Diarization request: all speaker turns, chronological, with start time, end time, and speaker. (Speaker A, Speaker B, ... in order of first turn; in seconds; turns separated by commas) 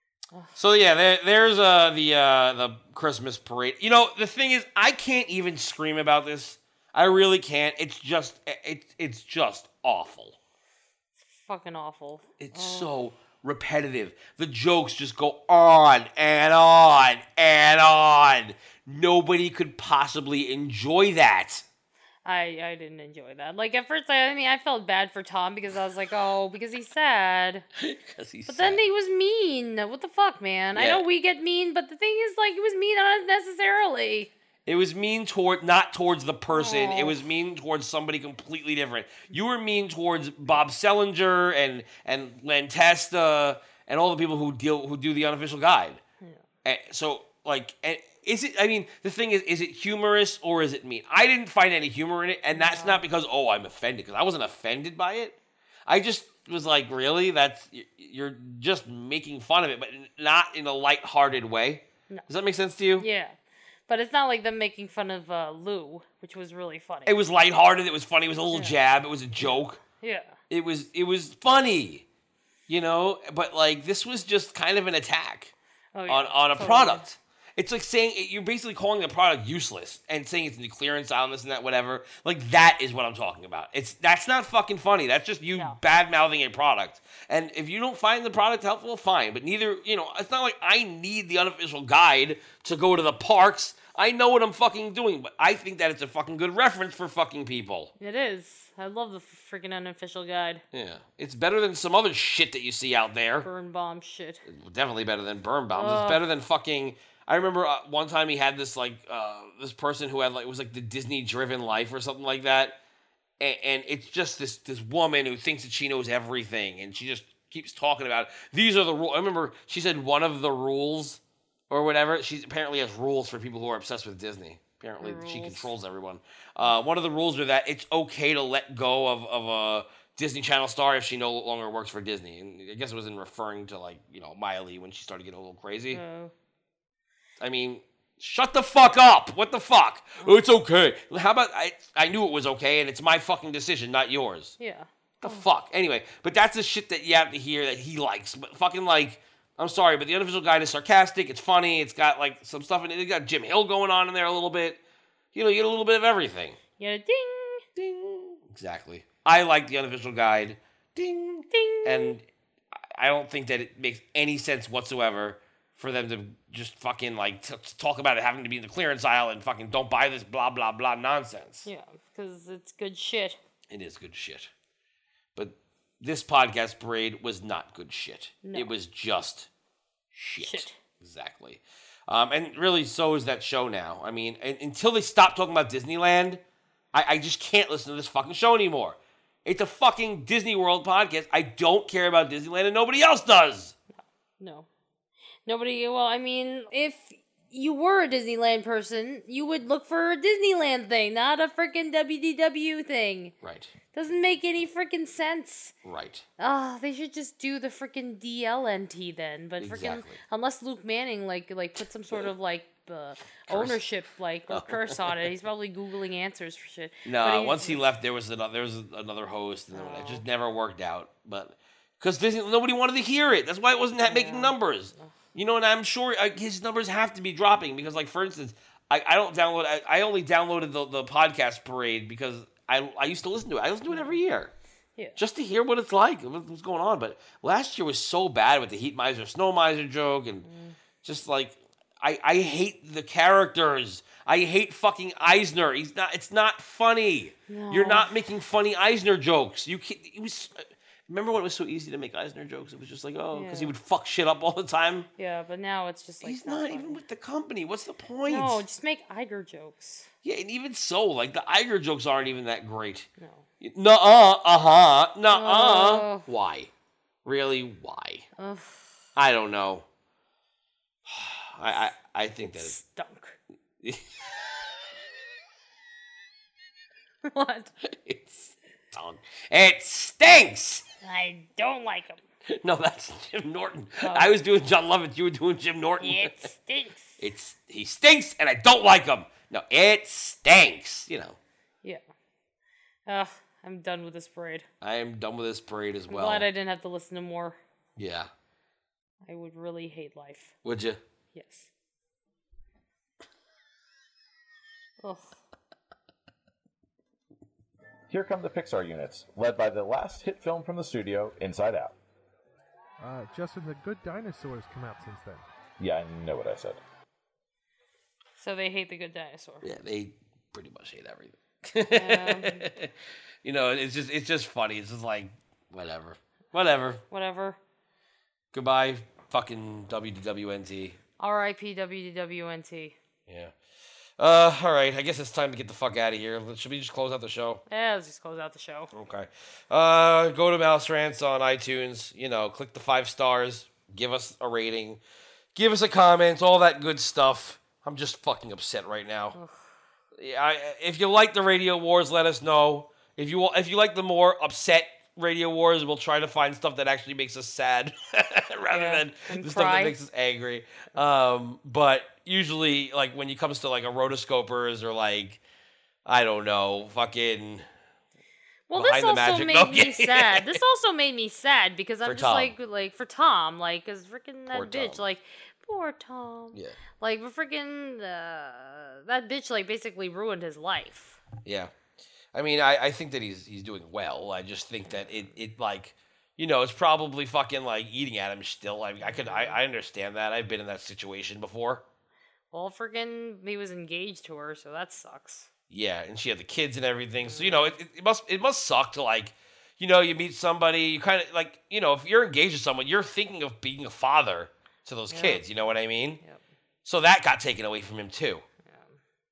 Speaker A: 0.6-10.4, Speaker B: 11.2-12.9, Speaker A: 12.4-21.6, Speaker B: 22.2-27.7, Speaker A: 27.8-28.8, Speaker B: 28.5-34.3, Speaker A: 30.7-31.0, Speaker A: 34.7-46.0, Speaker B: 36.5-37.2, Speaker A: 46.6-63.1, Speaker B: 52.5-53.0, Speaker B: 63.0-67.2, Speaker A: 67.1-69.8, Speaker B: 69.4-70.4, Speaker A: 70.5-72.1, Speaker A: 72.7-75.5, Speaker B: 75.9-77.0, Speaker A: 76.1-97.9, Speaker B: 98.0-100.6, Speaker A: 100.7-103.5, Speaker B: 103.4-104.4, Speaker A: 104.5-112.8, Speaker B: 105.7-106.2, Speaker A: 113.4-136.0, Speaker B: 125.0-125.7, Speaker B: 135.9-136.3, Speaker A: 137.4-144.6, Speaker B: 144.6-145.5, Speaker A: 145.2-154.8, Speaker A: 155.3-156.6, Speaker B: 156.8-157.6, Speaker A: 157.8-162.2, Speaker B: 161.5-162.2, Speaker A: 162.9-171.7, Speaker B: 171.7-173.4, Speaker A: 173.7-174.5, Speaker A: 175.4-179.5, Speaker B: 178.4-178.7, Speaker A: 180.1-186.4, Speaker B: 180.4-180.8, Speaker A: 186.9-193.8, Speaker B: 194.4-194.7, Speaker B: 195.4-203.3, Speaker A: 203.4-203.7, Speaker B: 203.9-205.7, Speaker A: 205.8-206.2, Speaker B: 206.4-217.8, Speaker A: 209.6-210.2, Speaker A: 213.5-213.8, Speaker A: 214.5-215.2, Speaker A: 217.1-234.5, Speaker B: 219.7-220.2, Speaker B: 224.0-225.2, Speaker B: 233.9-234.2, Speaker A: 235.2-240.4, Speaker B: 240.4-240.8, Speaker A: 241.0-255.1, Speaker B: 247.5-248.1, Speaker B: 253.3-253.7, Speaker B: 255.2-257.0, Speaker A: 256.2-258.6, Speaker B: 258.3-260.1, Speaker A: 260.2-263.1, Speaker B: 263.2-263.5, Speaker A: 263.6-266.7, Speaker B: 265.3-266.3, Speaker A: 267.2-268.3, Speaker B: 268.4-268.9, Speaker A: 269.2-269.9, Speaker A: 271.1-272.8, Speaker B: 272.5-273.4, Speaker B: 277.2-277.7, Speaker A: 277.9-280.8, Speaker B: 281.0-282.2, Speaker A: 282.5-286.4, Speaker B: 284.0-284.3, Speaker B: 286.0-287.2, Speaker A: 287.2-291.4, Speaker B: 293.1-294.7, Speaker A: 294.8-296.5, Speaker B: 296.1-297.6, Speaker A: 298.0-298.3, Speaker B: 299.2-300.5, Speaker A: 300.6-301.0, Speaker B: 301.3-301.7, Speaker B: 305.0-305.4, Speaker C: 308.1-311.9, Speaker D: 313.0-315.5, Speaker C: 315.8-316.8, Speaker B: 318.4-319.7, Speaker A: 319.6-322.9, Speaker B: 321.9-322.7, Speaker A: 323.4-327.0, Speaker B: 327.1-327.6, Speaker A: 328.5-331.0, Speaker B: 331.2-333.0, Speaker A: 333.3-333.5, Speaker A: 334.2-337.6, Speaker B: 337.7-338.9, Speaker A: 338.9-345.0, Speaker A: 345.6-349.4, Speaker B: 349.4-349.6, Speaker A: 350.2-365.4, Speaker B: 358.7-359.9, Speaker A: 366.1-367.7, Speaker B: 368.7-381.2, Speaker A: 368.8-370.6, Speaker A: 372.1-372.5, Speaker A: 374.5-375.0, Speaker A: 381.4-381.7, Speaker A: 382.3-391.8, Speaker B: 384.9-385.3, Speaker B: 389.0-389.6, Speaker B: 392.5-395.5, Speaker A: 395.7-406.2, Speaker B: 397.2-397.7, Speaker B: 405.1-405.7, Speaker A: 406.9-408.4, Speaker B: 408.6-409.0